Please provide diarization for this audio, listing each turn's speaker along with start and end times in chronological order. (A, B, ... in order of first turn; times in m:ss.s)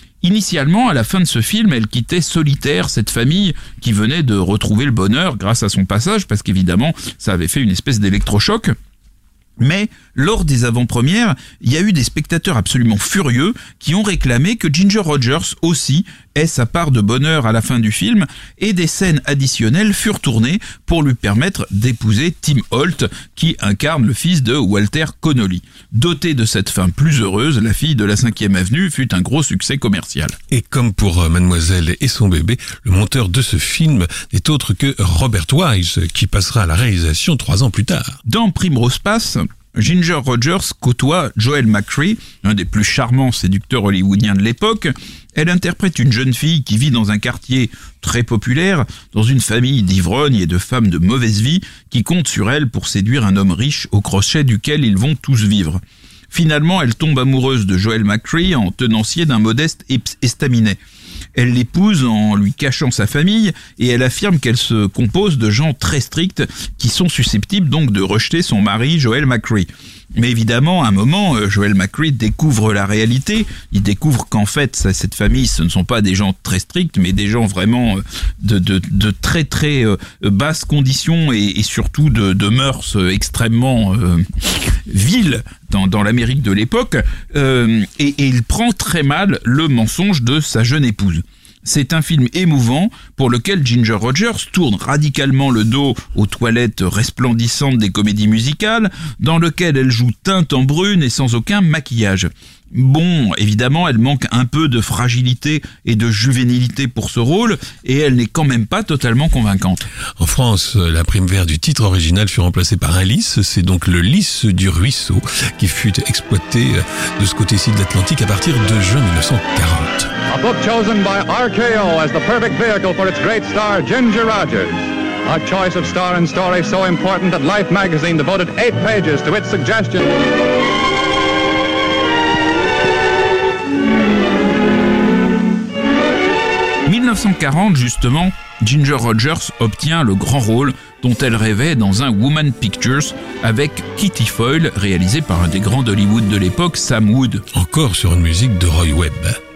0:00.2-0:08.8 A
0:09.6-0:30.4 A
0:30.5-0:38.2 B
0:38.3-1:00.8 A
1:01.4-1:49.8 A
1:50.2-2:00.1 B
2:00.3-2:10.0 C
2:16.9-2:27.4 A
2:27.5-2:29.4 B